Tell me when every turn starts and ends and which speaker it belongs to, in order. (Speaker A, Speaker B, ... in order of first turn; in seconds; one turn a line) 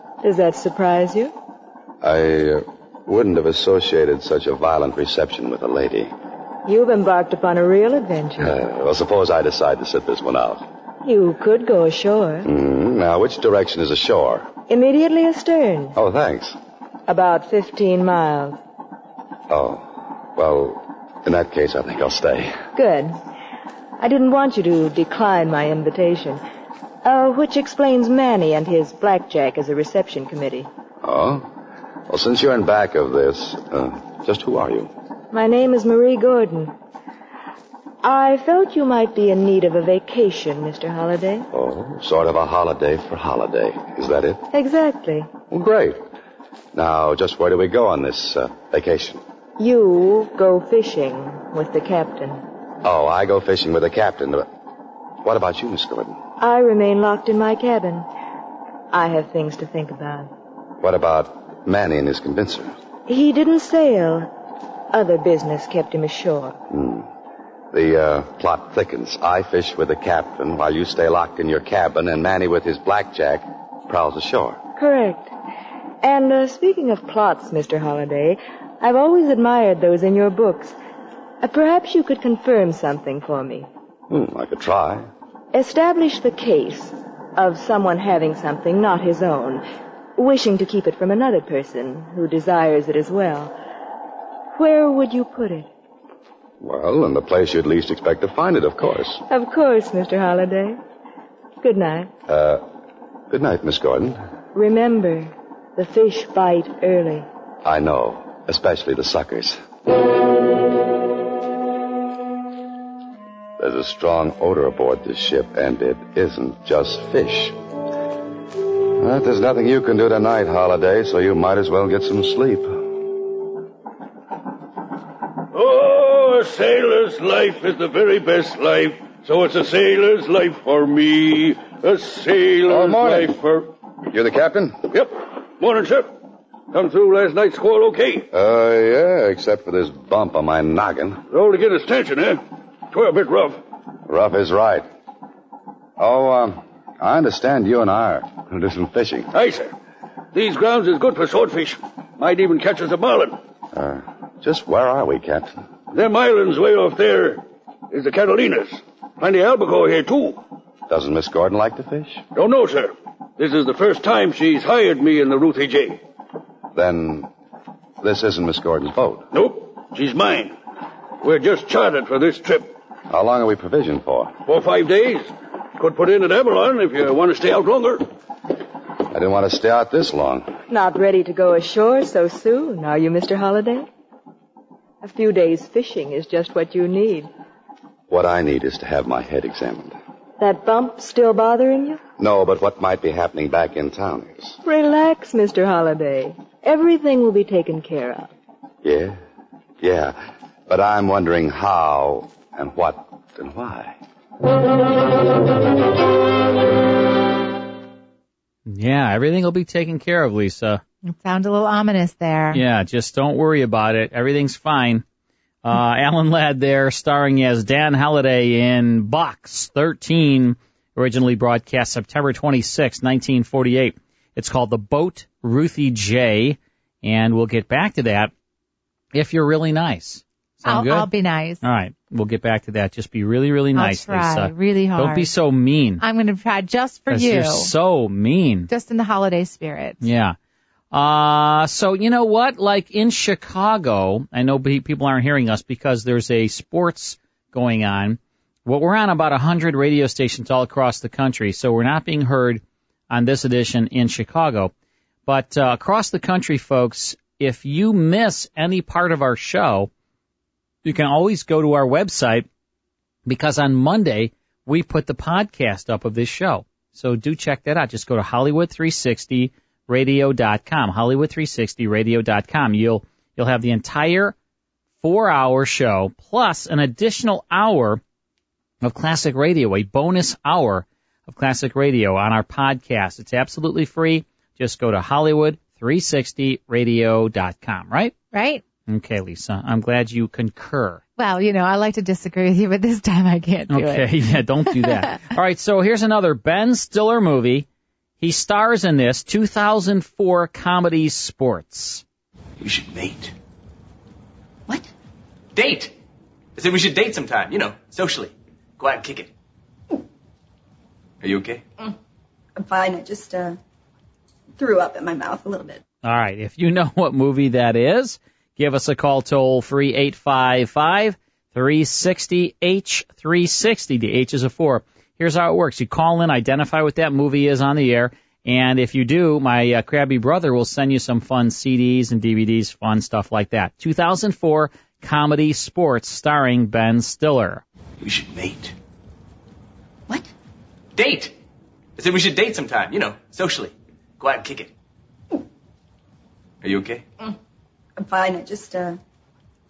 Speaker A: 0.2-1.3
Speaker B: 2.0-6.1
Speaker A: 6.7-8.5
Speaker B: 8.4-10.6
Speaker A: 11.0-12.5
Speaker B: 12.4-14.5
Speaker A: 14.7-15.9
Speaker B: 15.9-16.6
Speaker A: 17.1-18.6
Speaker B: 19.5-22.6
Speaker A: 22.7-23.2
Speaker A: 24.0-26.4
Speaker A: 27.0-30.7
Speaker B: 31.0-31.5
Speaker B: 32.1-34.9
Speaker A: 35.3-36.7
Speaker A: 38.0-41.5
Speaker B: 41.5-44.4
Speaker A: 44.5-45.3
Speaker B: 45.5-46.0
Speaker B: 46.7-49.2
Speaker A: 49.6-52.4
Speaker B: 52.8-54.5
Speaker B: 55.2-56.2
Speaker A: 56.4-58.1
Speaker A: 58.9-60.3
Speaker B: 60.8-62.7
Speaker A: 63.1-64.3
Speaker A: 64.9-66.5
Speaker B: 66.7-67.1
Speaker B: 67.7-74.6
Speaker A: 74.8-75.3
Speaker A: 76.0-80.8
Speaker A: 81.4-83.7
Speaker B: 84.1-85.1
Speaker A: 85.5-89.6
Speaker A: 90.2-93.5
Speaker A: 94.5-95.7
Speaker B: 96.6-99.2
Speaker A: 99.3-100.8
Speaker A: 101.6-102.1
Speaker B: 102.3-102.6
Speaker B: 103.3-104.2
Speaker A: 104.5-107.3
Speaker B: 107.6-109.6
Speaker B: 113.6-117.5
Speaker B: 119.0-122.8
Speaker C: 125.5-133.7
Speaker B: 132.7-133.3
Speaker B: 134.1-134.8
Speaker C: 134.9-136.1
Speaker C: 136.7-138.3
Speaker B: 138.3-141.2
Speaker C: 141.3-143.6
Speaker B: 144.1-144.8
Speaker B: 146.0-149.3
Speaker C: 149.3-149.7
Speaker C: 150.3-153.4
Speaker B: 153.7-155.6
Speaker C: 155.9-160.4
Speaker B: 160.9-162.2
Speaker C: 162.3-166.0
Speaker B: 166.7-167.3
Speaker B: 168.0-169.2
Speaker C: 169.3-170.6
Speaker C: 171.2-172.7
Speaker B: 173.1-174.3
Speaker C: 174.4-178.1
Speaker B: 179.1-180.5
Speaker A: 180.7-183.9
Speaker A: 185.0-187.3
Speaker B: 188.1-189.9
Speaker A: 190.4-192.0
Speaker B: 192.2-194.6
Speaker A: 194.6-198.3
Speaker B: 198.8-199.2
Speaker B: 199.8-203.9
Speaker D: 208.7-210.8
Speaker E: 211.1-212.6
Speaker D: 212.5-215.0
Speaker D: 215.6-228.3
Speaker D: 229.1-231.1
Speaker E: 230.7-231.6
Speaker D: 231.6-236.0
Speaker E: 233.7-235.3
Speaker E: 236.0-237.7
Speaker D: 237.1-238.7
Speaker E: 238.7-240.0
Speaker D: 240.0-240.3
Speaker D: 240.9-254.7
Speaker D: 255.3-259.9
Speaker D: 260.8-262.5
Speaker D: 263.3-274.3
Speaker D: 275.0-278.0
Speaker D: 278.8-288.1
Speaker E: 288.3-288.6
Speaker D: 288.9-291.0
Speaker E: 291.2-295.2
Speaker D: 293.7-297.7
Speaker D: 298.2-302.0
Speaker F: 302.6-303.3
Speaker F: 305.5-305.9
Speaker F: 306.6-309.3
Speaker F: 311.2-311.6
Speaker G: 312.6-313.6
Speaker G: 314.6-315.8
Speaker D: 316.0-337.6
Speaker F: 338.0-338.7
Speaker F: 340.9-341.3
Speaker F: 342.0-344.7
Speaker F: 346.6-347.0
Speaker G: 348.0-349.0